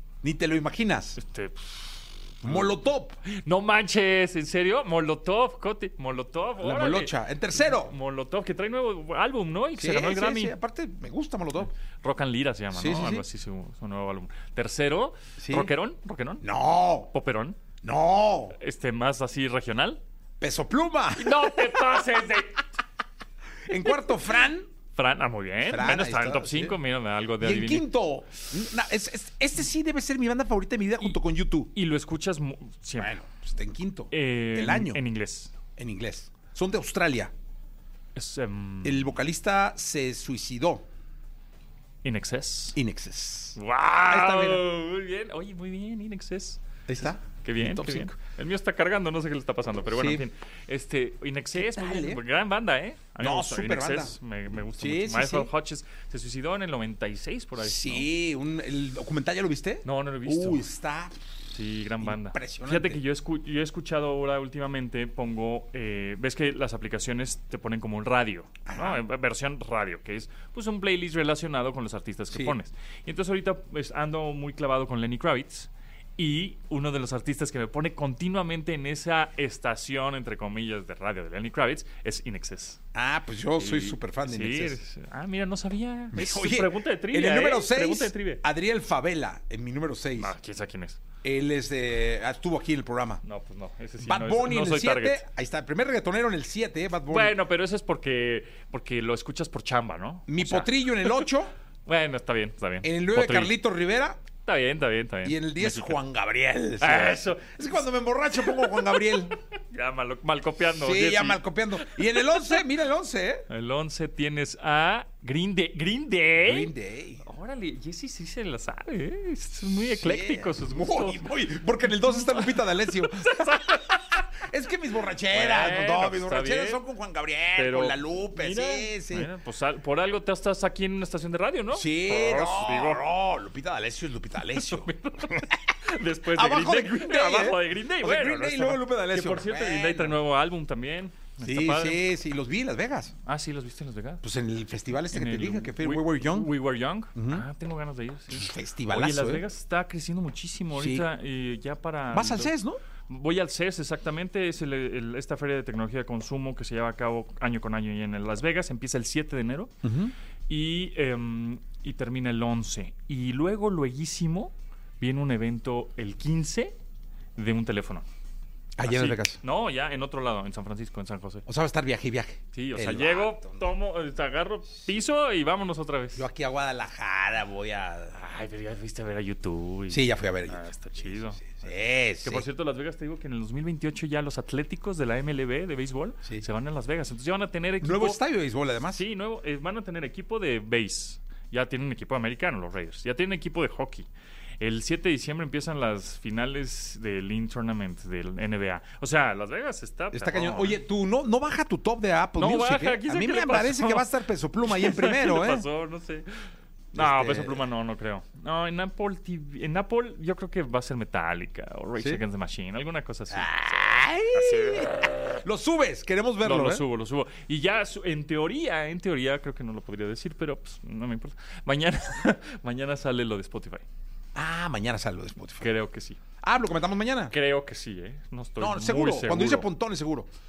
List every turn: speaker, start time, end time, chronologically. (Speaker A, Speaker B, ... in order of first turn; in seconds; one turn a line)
Speaker A: 0.2-1.2
Speaker B: 1.2-10.5
Speaker A: 2.4-3.2
Speaker A: 6.6-7.9
Speaker A: 9.8-11.7
Speaker B: 11.8-16.4
Speaker A: 12.7-13.2
Speaker A: 15.4-15.7
Speaker A: 16.4-17.1
Speaker B: 17.1-17.6
Speaker A: 17.8-18.6
Speaker B: 18.6-20.0
Speaker A: 20.4-22.3
Speaker B: 21.1-22.6
Speaker A: 23.7-24.7
Speaker B: 24.9-27.9
Speaker A: 25.6-26.8
Speaker A: 27.4-31.7
Speaker B: 31.7-33.1
Speaker A: 33.0-35.0
Speaker B: 34.1-35.5
Speaker A: 35.8-37.3
Speaker B: 38.1-39.0
Speaker A: 38.8-40.9
Speaker B: 42.0-42.8
Speaker A: 42.7-44.6
Speaker B: 43.5-58.1
Speaker A: 46.9-48.1
Speaker A: 49.9-50.2
Speaker A: 51.5-52.2
Speaker A: 53.2-55.5
Speaker A: 57.6-61.2
Speaker B: 59.8-60.6
Speaker B: 61.5-82.8
Speaker A: 62.0-63.0
Speaker A: 68.7-69.0
Speaker A: 72.3-72.6
Speaker A: 82.9-84.8
Speaker B: 83.5-88.4
Speaker A: 86.1-90.3
Speaker B: 90.2-91.0
Speaker A: 91.2-93.2
Speaker B: 93.2-95.2
Speaker A: 94.0-97.4
Speaker B: 97.1-101.3
Speaker A: 100.3-101.5
Speaker B: 101.8-103.5
Speaker A: 102.8-104.2
Speaker B: 104.4-106.0
Speaker A: 105.2-109.3
Speaker B: 106.8-107.8
Speaker B: 108.3-112.6
Speaker A: 110.7-113.4
Speaker B: 113.5-121.2
Speaker A: 116.4-117.2
Speaker A: 119.8-129.3
Speaker B: 122.0-124.4
Speaker B: 125.3-126.8
Speaker B: 127.5-133.1
Speaker A: 131.7-135.5
Speaker B: 134.5-142.0
Speaker A: 136.2-140.2
Speaker A: 141.4-143.1
Speaker B: 143.2-144.2
Speaker A: 144.2-146.5
Speaker B: 145.1-152.5
Speaker A: 147.1-147.5
Speaker A: 148.3-149.4
Speaker A: 150.7-151.1
Speaker A: 152.1-152.8
Speaker B: 153.1-159.7
Speaker A: 159.8-160.1
Speaker B: 160.5-166.7
Speaker B: 167.3-168.1
Speaker A: 168.8-169.4
Speaker B: 168.8-171.4
Speaker A: 171.5-173.7
Speaker B: 172.5-176.2
Speaker A: 176.1-178.2
Speaker B: 178.1-181.6
Speaker A: 179.9-180.6
Speaker A: 181.4-182.4
Speaker B: 182.2-188.2
Speaker A: 187.8-189.0
Speaker B: 188.9-194.1
Speaker B: 194.6-200.8
Speaker A: 200.1-205.7
Speaker B: 202.3-204.1
Speaker B: 204.7-215.4
Speaker A: 206.9-207.7
Speaker A: 213.3-216.8
Speaker B: 216.4-223.8
Speaker A: 224.3-225.7
Speaker B: 225.6-226.2
Speaker A: 226.4-227.3
Speaker B: 227.3-229.7
Speaker A: 228.6-230.3